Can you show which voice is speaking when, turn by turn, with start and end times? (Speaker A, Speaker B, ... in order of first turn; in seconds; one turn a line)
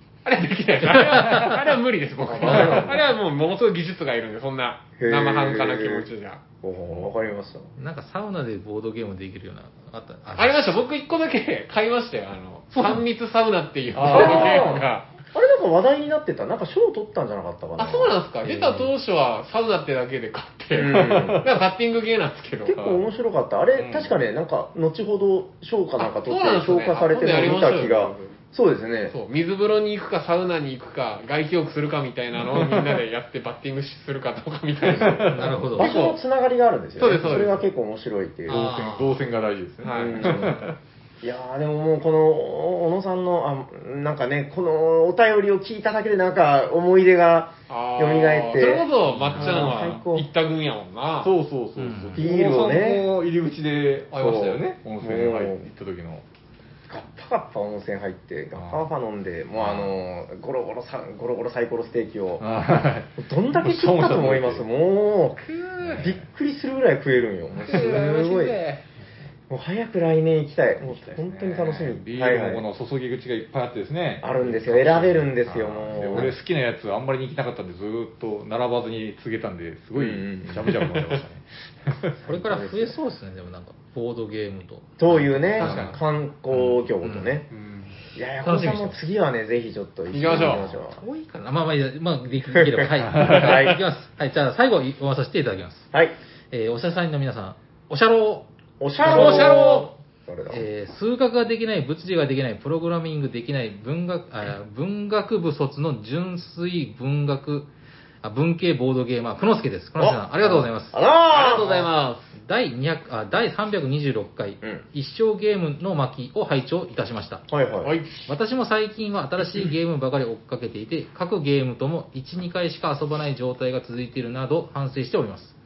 Speaker A: 0.2-6.4
Speaker B: 0.8-1.6
Speaker C: 2.2-3.0
Speaker D: 2.3-3.0
Speaker B: 2.5-2.9
Speaker D: 5.0-6.1
Speaker D: 6.6-7.7
Speaker B: 7.8-10.8
Speaker A: 10.4-15.1
Speaker B: 12.7-13.0
Speaker C: 13.9-14.8
Speaker D: 14.0-18.8
Speaker A: 17.8-22.9
Speaker D: 20.7-21.5
Speaker C: 20.9-21.5
Speaker D: 22.7-29.1
Speaker C: 23.7-24.1
Speaker A: 26.0-28.4
Speaker A: 29.1-36.2
Speaker C: 32.5-33.0
Speaker C: 34.9-35.6
Speaker B: 35.3-35.9
Speaker D: 35.7-38.7
Speaker A: 37.0-37.7
Speaker B: 38.5-39.2
Speaker C: 38.5-40.8
Speaker A: 39.8-40.5
Speaker D: 40.0-40.7
Speaker D: 41.2-50.3
Speaker A: 47.7-51.3
Speaker B: 49.1-49.5
Speaker C: 49.3-49.9
Speaker C: 51.2-56.2
Speaker B: 51.8-52.3
Speaker D: 52.1-53.1
Speaker D: 54.1-55.7
Speaker D: 56.9-62.4
Speaker C: 58.5-58.9
Speaker C: 59.6-59.9
Speaker C: 62.4-64.6
Speaker D: 63.2-65.5
Speaker A: 65.4-66.1
Speaker C: 65.8-66.2
Speaker D: 66.0-68.6
Speaker C: 67.6-67.9
Speaker A: 67.7-68.8
Speaker D: 69.5-72.6
Speaker C: 70.8-82.1
Speaker D: 74.2-76.4
Speaker D: 80.0-80.8
Speaker D: 82.2-83.0
Speaker B: 82.2-85.7
Speaker D: 85.0-87.5
Speaker A: 85.6-86.0
Speaker C: 85.6-86.0
Speaker B: 86.5-87.4
Speaker A: 87.5-88.0
Speaker D: 88.1-91.0
Speaker B: 88.4-89.0
Speaker A: 90.1-90.7
Speaker B: 90.7-95.9
Speaker D: 92.5-93.8
Speaker C: 93.0-93.6
Speaker B: 96.5-98.5
Speaker D: 98.8-100.7
Speaker B: 99.0-100.0
Speaker A: 99.1-99.7
Speaker B: 100.5-107.7
Speaker B: 108.2-111.0
Speaker D: 110.0-111.6
Speaker A: 111.3-112.3
Speaker B: 111.6-117.4
Speaker D: 117.5-117.9
Speaker A: 117.8-118.2
Speaker B: 118.3-125.6